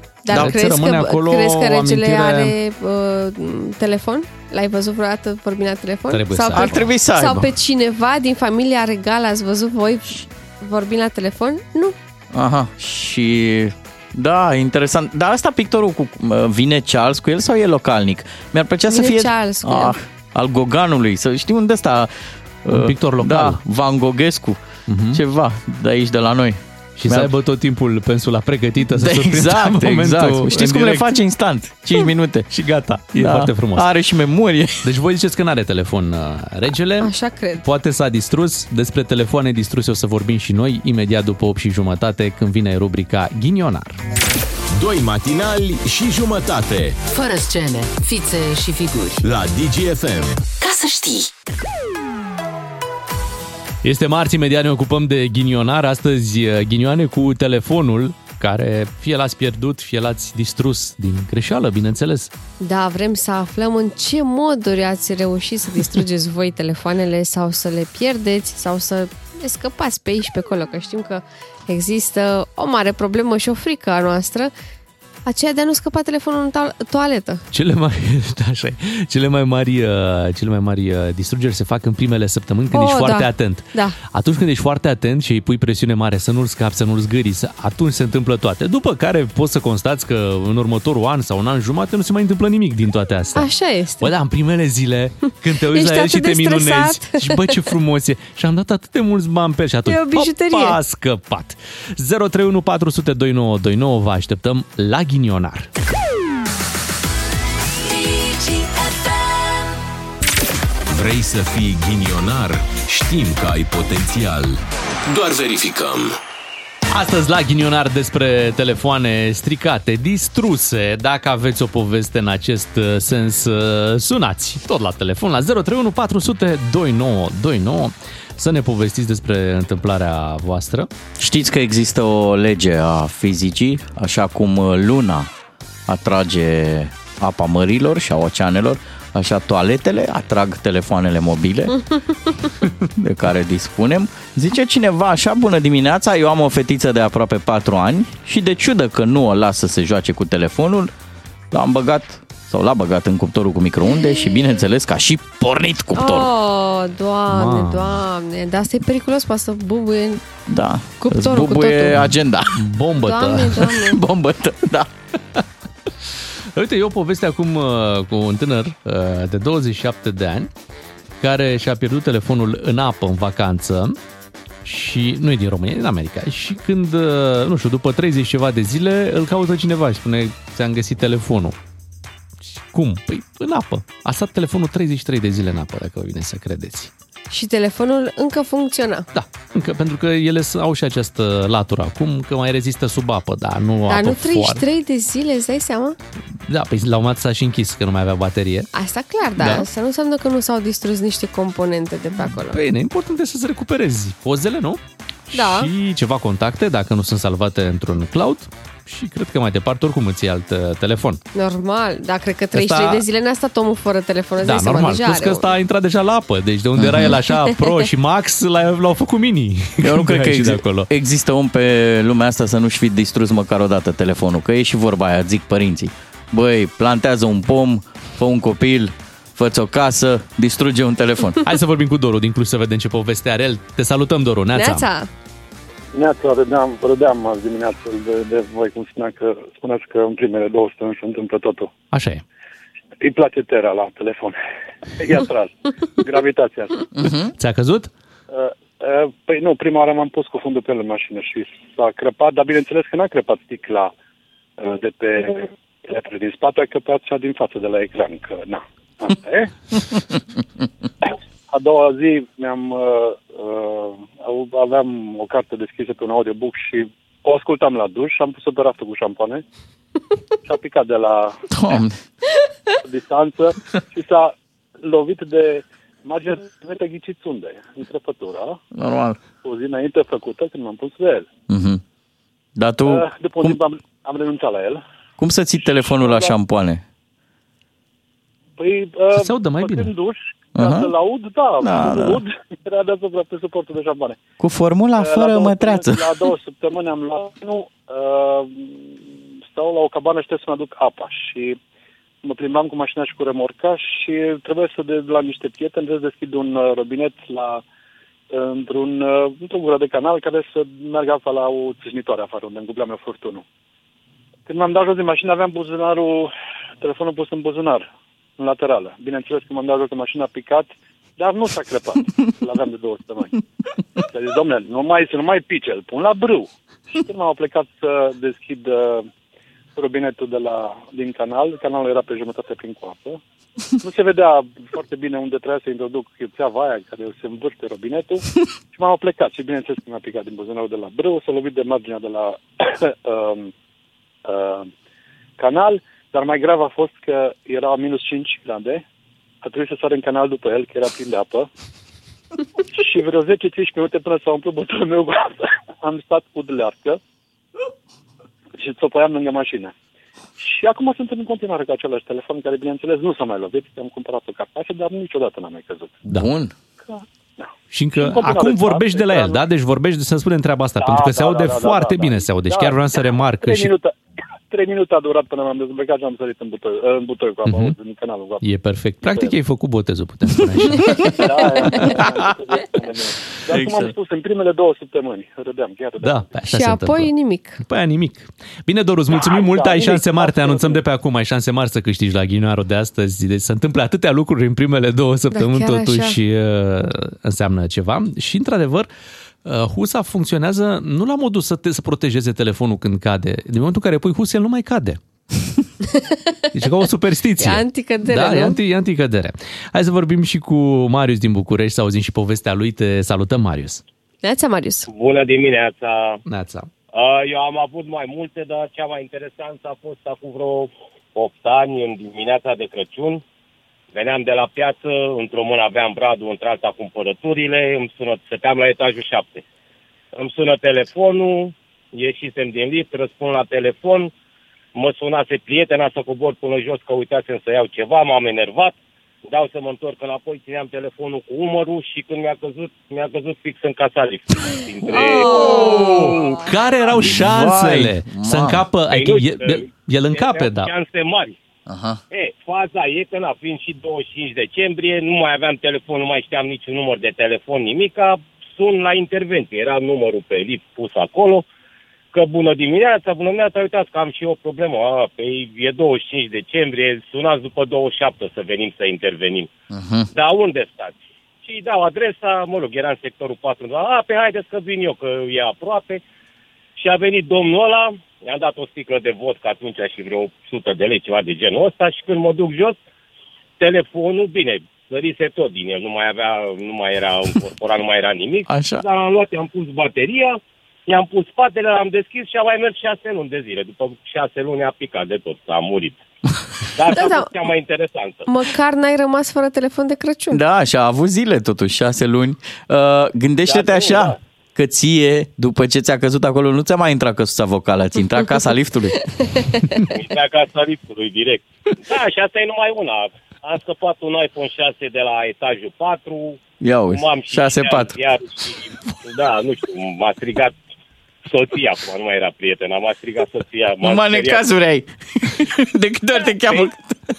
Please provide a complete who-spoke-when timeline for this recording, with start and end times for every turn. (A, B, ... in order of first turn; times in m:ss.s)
0:00.2-0:12.0 A
0:00.3-0:02.6 B
0:00.3-0:00.6 C
0:06.1-0:06.9 B
0:06.6-0:07.5 C
0:12.3-0:22.1 C
0:18.9-0:19.9 A
0:22.6-0:24.6 C
0:22.7-0:23.6 B
0:24.9-0:25.2 B
0:25.1-0:27.3 C
0:27.0-0:31.2 B
0:28.9-0:32.5 C
0:32.5-0:33.9 B
0:33.2-0:34.9 C
0:34.8-0:44.0 B
0:37.0-0:37.6 A
0:44.7-0:47.0 D
0:47.1-0:49.2 E
0:49.2-0:50.4 D
0:50.6-0:51.3 E
0:53.8-1:02.3 B
1:02.6-1:14.5 A
1:15.3-1:17.4 A
1:17.5-1:45.7 B
1:22.7-1:24.0 A
1:33.4-1:34.1 A
1:35.7-1:37.6 A
1:39.9-1:40.8 A
1:50.9-1:56.2 D
1:56.9-2:10.9 B
2:11.2-2:15.3 C
2:15.9-2:21.8 C
2:23.0-2:30.9 C
2:31.5-2:36.3 C
2:36.0-2:40.2 A
2:37.3-2:38.0 B
2:40.5-2:42.6 C
2:41.0-2:42.1 A
2:42.0-2:43.7 B
2:43.0-2:44.0 A
2:43.8-2:44.9 C
2:46.5-2:50.5 B
2:51.2-2:54.0 B
2:54.6-3:01.6 B
3:02.4-3:06.9 B
3:07.3-3:09.1 A
3:09.1-3:14.6 B
3:13.9-3:16.0 A
3:16.5-3:18.7 B
3:18.7-3:22.6 A
3:19.4-3:19.7 B
3:22.3-3:31.2 B
3:25.3-3:25.7 A
3:31.4-3:35.5 A
3:32.5-3:33.0 B
3:34.4-3:40.9 B
3:36.8-3:37.2 C
3:39.8-3:51.4 C
3:51.4-3:54.9 B
3:54.5-3:55.1 A
3:55.9-4:01.7 F
4:01.9-4:02.2 B
4:03.0-4:04.4 F
4:05.0-4:06.9 F
4:07.0-4:07.3 C
4:07.4-4:07.9 B
4:08.3-4:13.9 F
4:14.6-4:19.5 F
4:21.1-4:29.4 F
4:30.4-4:31.4 F
4:31.5-4:32.0 C
4:32.8-4:38.6 F
4:38.8-4:39.2 C
4:39.4-4:41.3 F
4:41.5-4:41.8 C
4:42.6-4:43.6 C
4:42.8-4:44.8 F
4:45.2-4:46.8 C
4:45.9-4:46.3 F
4:48.6-4:54.2 F
4:49.2-4:49.9 B
4:50.6-4:50.9 C
4:51.6-4:52.2 C
4:54.4-4:56.1 C
4:55.0-5:01.6 F
5:02.2-5:07.6 F
5:08.3-5:13.4 F
5:14.5-5:17.9 F
5:18.4-5:23.4 F
5:24.0-5:29.1 F
5:29.8-5:33.2 F
5:33.8-5:43.5 F
5:44.2-5:44.7 F
5:45.4-5:48.8 F
5:49.4-5:51.5 F
5:52.7-5:57.0 F
5:58.6-5:59.7 F
6:00.4-6:06.0 F
6:06.1-6:06.5 C
6:06.8-6:09.4 F
6:07.7-6:13.7 B
6:10.8-6:12.8 F
6:13.4-6:14.0 F
6:14.5-6:18.4 F
6:17.5-6:17.7 B
6:18.4-6:22.0 B
6:19.0-6:19.3 F
6:21.0-6:26.3 F
6:23.5-6:23.9 C
6:26.0-6:38.9 B
6:26.5-6:27.6 A
6:29.1-6:30.8 F
6:35.3-6:36.2 A
6:39.4-6:45.0 B
6:46.5-6:53.8 B
6:47.4-6:48.6 A
6:54.2-6:54.9 A
6:54.9-6:56.2 G
6:56.3-6:56.7 B
6:56.9-7:03.2 G
7:03.9-7:09.4 G
7:10.1-7:14.1 G
7:14.7-7:26.4 G
7:25.0-7:26.2 C
7:25.3-7:25.9 A
7:25.4-7:30.7 B
7:27.0-7:28.6 C
7:28.9-7:31.4 G
7:31.7-7:32.0 C
7:32.1-7:41.5 G
7:42.1-7:49.5 G
7:49.7-7:50.1 C
7:50.1-7:56.0 G
7:56.8-8:02.8 G
8:03.6-8:16.0 G
8:08.5-8:08.8 C
8:16.8-8:18.3 G
8:16.9-8:17.3 A
8:18.3-8:20.4 A
8:20.3-8:29.2 C
8:23.5-8:24.2 G
8:29.4-8:29.8 A
8:29.9-8:40.6 G
8:36.6-8:38.0 C
8:41.2-8:44.5 G
8:43.8-8:47.0 C
8:46.4-8:46.7 G